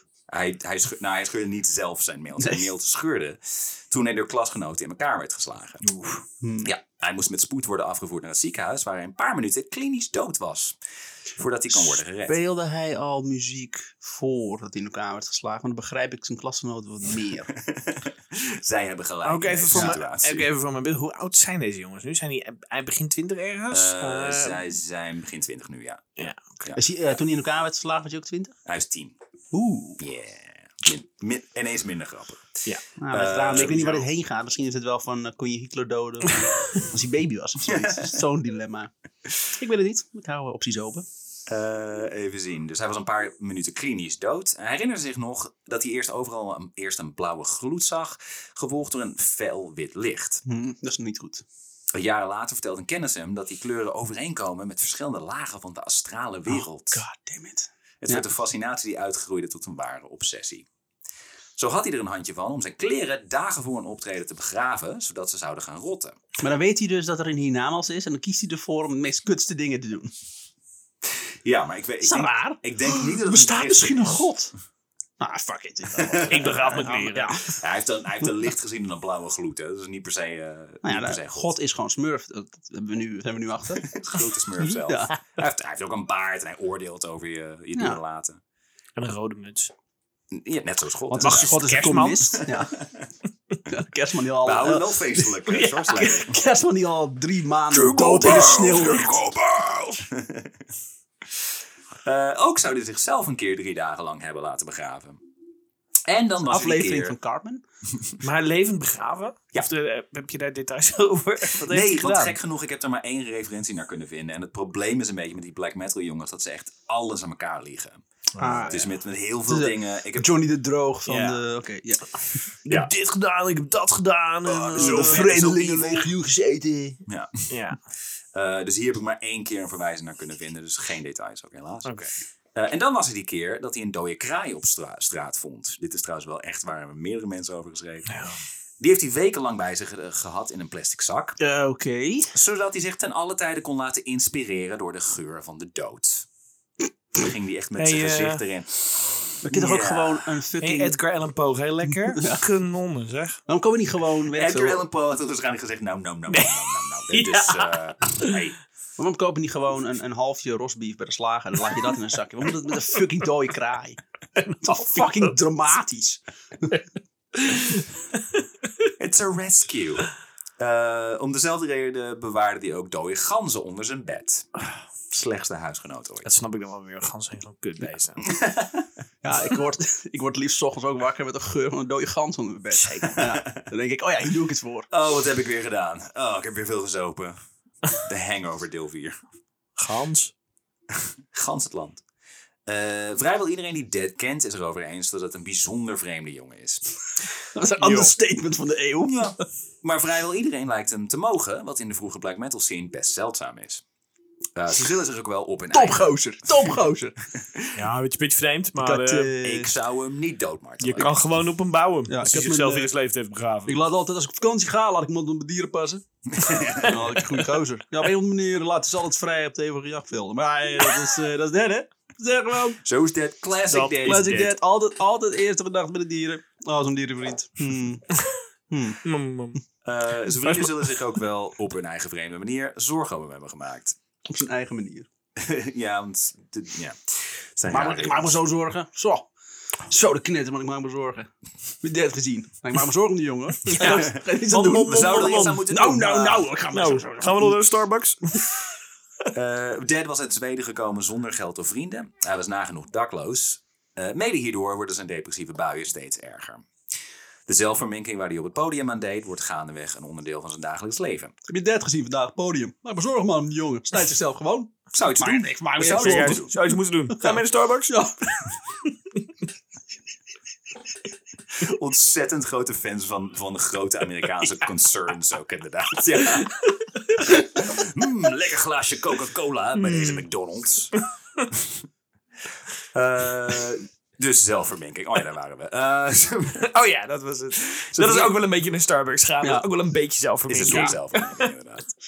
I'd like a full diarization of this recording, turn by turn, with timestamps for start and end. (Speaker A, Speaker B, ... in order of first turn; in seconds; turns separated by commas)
Speaker A: 0.3-5.9, Speaker B: 5.8-6.2, Speaker C: 6.4-6.7, Speaker A: 6.6-10.8, Speaker A: 11.3-12.3, Speaker C: 11.7-17.5, Speaker A: 17.5-20.5, Speaker B: 19.2-24.7, Speaker A: 23.7-26.8, Speaker C: 26.7-28.5, Speaker A: 28.6-29.1, Speaker C: 29.5-30.0, Speaker A: 30.0-34.0, Speaker C: 33.0-41.0, Speaker A: 37.7-38.1, Speaker A: 41.5-50.4, Speaker C: 50.4-51.4, Speaker A: 51.9-57.0, Speaker C: 56.5-58.2, Speaker A: 58.0-60.6, Speaker A: 61.6-66.2, Speaker C: 66.4-70.1, Speaker A: 71.4-74.3, Speaker C: 72.0-74.5, Speaker C: 75.2-77.5, Speaker A: 76.0-76.5, Speaker B: 76.2-77.4, Speaker A: 77.5-81.5, Speaker C: 80.8-83.9, Speaker A: 83.8-88.4, Speaker C: 84.6-85.1, Speaker B: 89.0-89.7, Speaker A: 90.3-91.6, Speaker C: 91.1-92.7, Speaker B: 91.2-92.4, Speaker A: 92.5-93.1, Speaker C: 93.7-99.2, Speaker A: 94.4-96.3, Speaker B: 97.7-100.0, Speaker A: 100.1-100.5, Speaker A: 102.0-105.2, Speaker A: 106.1-107.1, Speaker C: 106.5-107.6, Speaker B: 108.2-112.3, Speaker A: 111.6-118.0, Speaker B: 118.3-118.8, Speaker C: 118.4-118.9, Speaker A: 118.7-120.3, Speaker C: 119.5-122.4, Speaker B: 121.0-121.4, Speaker B: 122.7-125.3, Speaker A: 124.5-126.1, Speaker C: 124.7-127.0, Speaker A: 127.1-127.5, Speaker B: 127.5-127.8, Speaker A: 128.3-131.9, Speaker B: 131.8-132.1, Speaker A: 132.5-138.1, Speaker B: 138.1-138.4, Speaker A: 138.8-141.4, Speaker C: 141.4-142.3, Speaker A: 142.3-146.2, Speaker A: 147.1-150.2, Speaker B: 147.8-148.4, Speaker C: 149.4-151.0, Speaker B: 150.6-153.4, Speaker C: 152.1-152.4, Speaker C: 153.5-154.8, Speaker A: 154.3-158.6, Speaker B: 156.3-158.4, Speaker C: 159.0-164.0, Speaker B: 164.4-165.3, Speaker C: 164.6-166.8, Speaker B: 167.3-167.9, Speaker A: 169.0-174.5, Speaker A: 175.1-176.3, Speaker B: 176.2-178.3, Speaker A: 178.2-178.9, Speaker C: 179.2-184.9, Speaker A: 183.2-183.5, Speaker A: 184.9-187.4, Speaker A: 187.9-189.2, Speaker B: 189.8-190.3, Speaker A: 190.9-192.0, Speaker A: 192.7-196.8, Speaker C: 197.5-199.3, Speaker B: 197.8-198.1, Speaker A: 199.0-203.8, Speaker A: 204.5-206.7, Speaker C: 205.7-207.2, Speaker A: 207.4-207.7, Speaker B: 207.7-209.3, Speaker C: 208.8-209.7, Speaker A: 209.4-211.2, Speaker B: 210.8-213.8, Speaker C: 212.1-212.9, Speaker C: 213.7-222.8, Speaker A: 216.3-217.0, Speaker A: 222.8-224.5, Speaker B: 223.7-224.5, Speaker C: 224.0-228.0, Speaker C: 228.7-229.0, Speaker B: 229.0-229.6, Speaker A: 229.8-233.9, Speaker C: 234.3-235.1, Speaker A: 235.3-238.3, Speaker C: 237.7-239.3, Speaker C: 239.9-241.3, Speaker C: 241.8-247.6, Speaker B: 243.7-245.6, Speaker A: 243.8-246.5, Speaker B: 246.7-248.6, Speaker A: 249.3-256.7, Speaker A: 257.5-261.3, Speaker C: 261.5-266.5, Speaker A: 264.9-266.6, Speaker B: 265.8-268.4, Speaker C: 267.2-268.2, Speaker A: 271.6-276.6, Speaker B: 276.3-277.2, Speaker A: 277.2-280.9, Speaker B: 279.8-280.2, Speaker A: 281.5-281.8, Speaker A: 282.9-286.7, Speaker B: 286.6-291.5, Speaker A: 287.9-288.3, Speaker A: 290.5-291.9